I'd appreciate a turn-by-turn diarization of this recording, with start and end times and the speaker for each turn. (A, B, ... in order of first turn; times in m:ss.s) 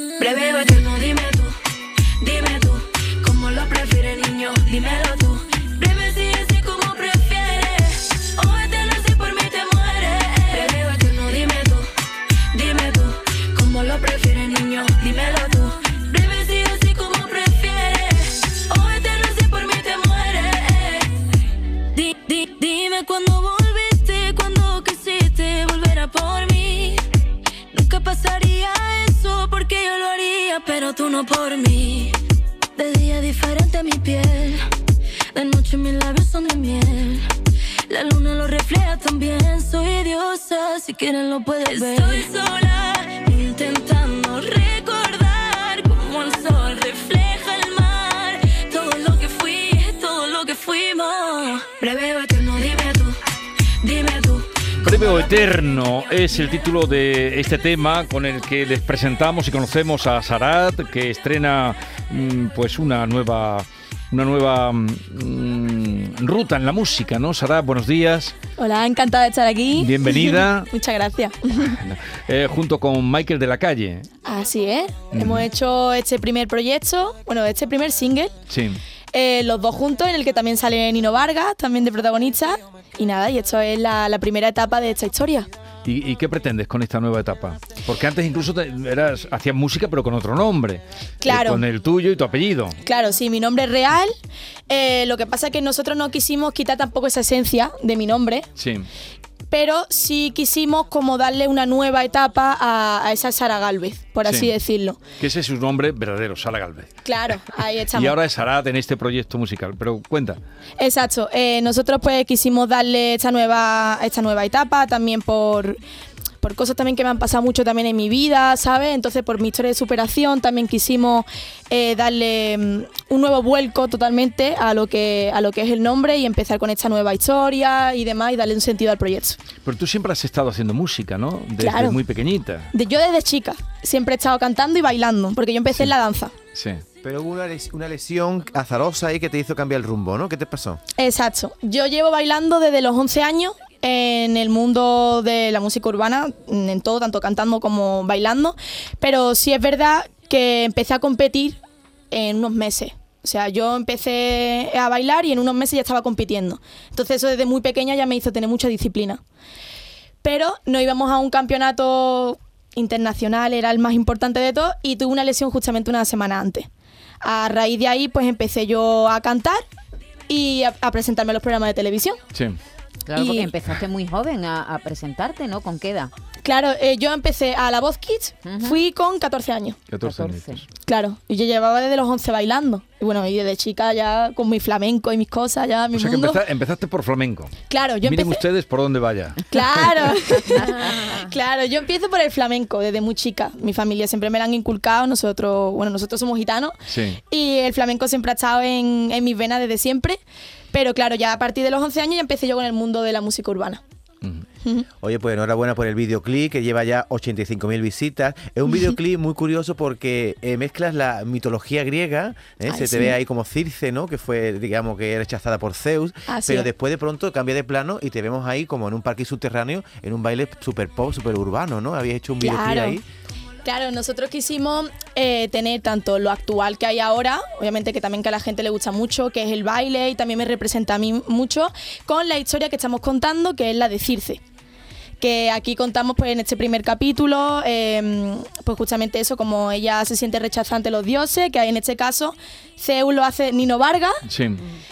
0:00.2-0:01.6 A
0:02.2-0:11.9 A
0:12.5-0:21.2 A
0:21.9-0:27.0 A
0:27.7-0:32.1 A
0:32.8-0:34.6 A
0:35.3-0:37.3 A
0:37.9-0:53.2 A
0:53.8-0:54.9 A
0:54.8-1:08.3 B
1:08.6-1:11.8 C
1:09.7-1:10.7 B
1:11.7-1:14.1 B
1:14.2-1:18.3 C
1:15.1-1:15.5 B
1:18.5-1:18.8 B
1:19.1-1:25.5 C
1:25.8-1:32.8 B
1:31.2-1:31.6 C
1:32.8-1:34.1 C
1:34.7-1:38.4 C
1:38.6-1:38.9 B
1:39.5-1:45.0 C
1:44.2-1:44.5 B
1:45.2-1:46.9 B
1:47.0-1:48.2 C
1:47.9-1:50.4 B
1:50.8-1:55.8 C
1:56.4-2:09.4 C
2:09.6-2:12.7 B
2:11.6-2:12.0 C
2:12.7-2:16.3 C
2:16.5-2:16.8 B
2:17.0-2:20.8 D
2:21.0-2:31.6 C
2:32.1-2:39.2 C
2:40.2-2:46.7 C
2:47.2-2:49.6 C
2:50.3-2:52.2 C
2:53.0-2:56.1 E
2:53.2-2:53.5 C
2:56.4-2:59.9 C
2:58.4-2:58.8 E
2:59.9-3:00.6 B
3:00.0-3:00.6 E
3:00.8-3:06.4 C
3:05.9-3:09.4 B
3:07.7-3:08.4 C
3:09.5-3:20.2 C
3:16.9-3:17.2 B
3:20.7-3:23.8 C
3:24.6-3:24.9 C
3:25.0-3:43.0 D
3:32.6-3:33.2 C
3:36.3-3:36.7 C
3:42.4-3:43.0 C
3:43.6-3:54.4 C
3:55.2-4:04.1 C
4:04.2-4:04.6 B